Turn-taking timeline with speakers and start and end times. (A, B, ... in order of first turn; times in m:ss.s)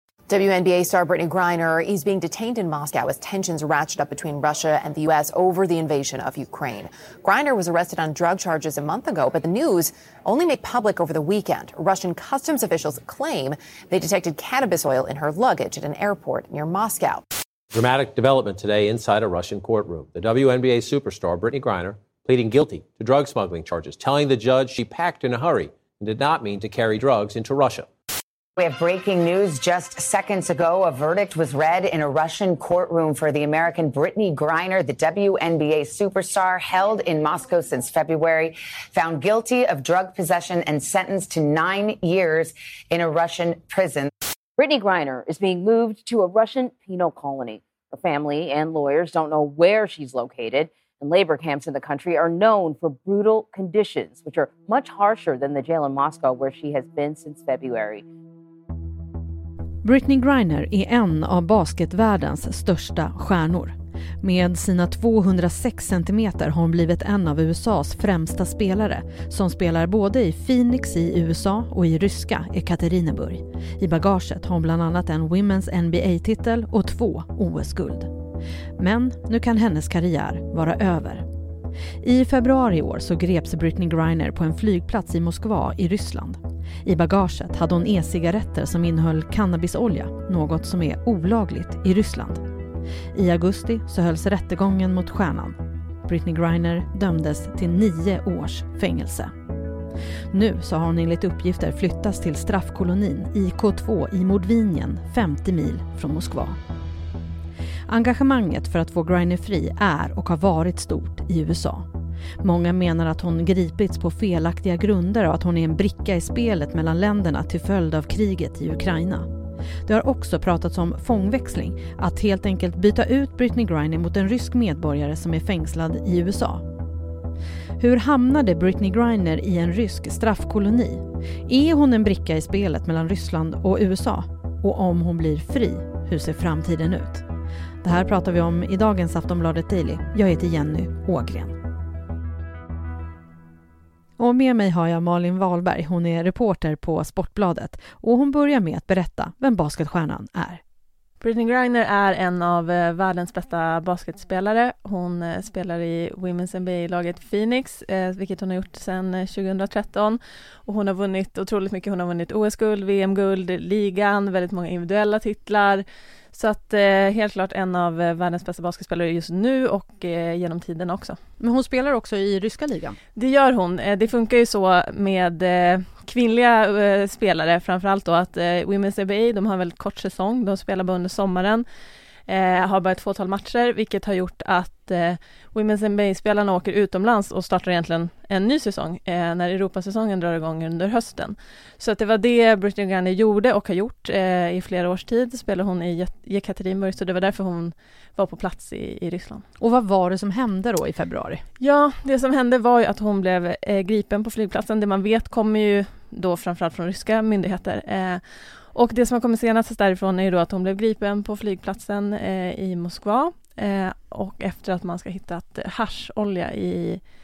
0:00.3-0:17.2 A
0:17.7-0:27.9 B
0:28.6-0:44.1 C
0:44.6-0:58.0 D
0:59.8-1:18.1 E
1:18.8-1:21.2 E
1:22.0-1:32.4 E
1:33.1-1:39.3 E
1:40.3-1:46.6 E
1:47.9-1:51.9 E
1:52.4-1:59.3 E
1:59.8-2:06.6 E
2:07.8-2:17.2 E
2:17.8-2:21.5 E
2:24.2-2:30.6 E
2:31.2-2:51.2 F
2:51.4-2:53.0 E
2:53.2-3:01.6 F
3:02.3-3:19.4 F
3:19.6-3:21.4 E
3:21.6-3:37.0 F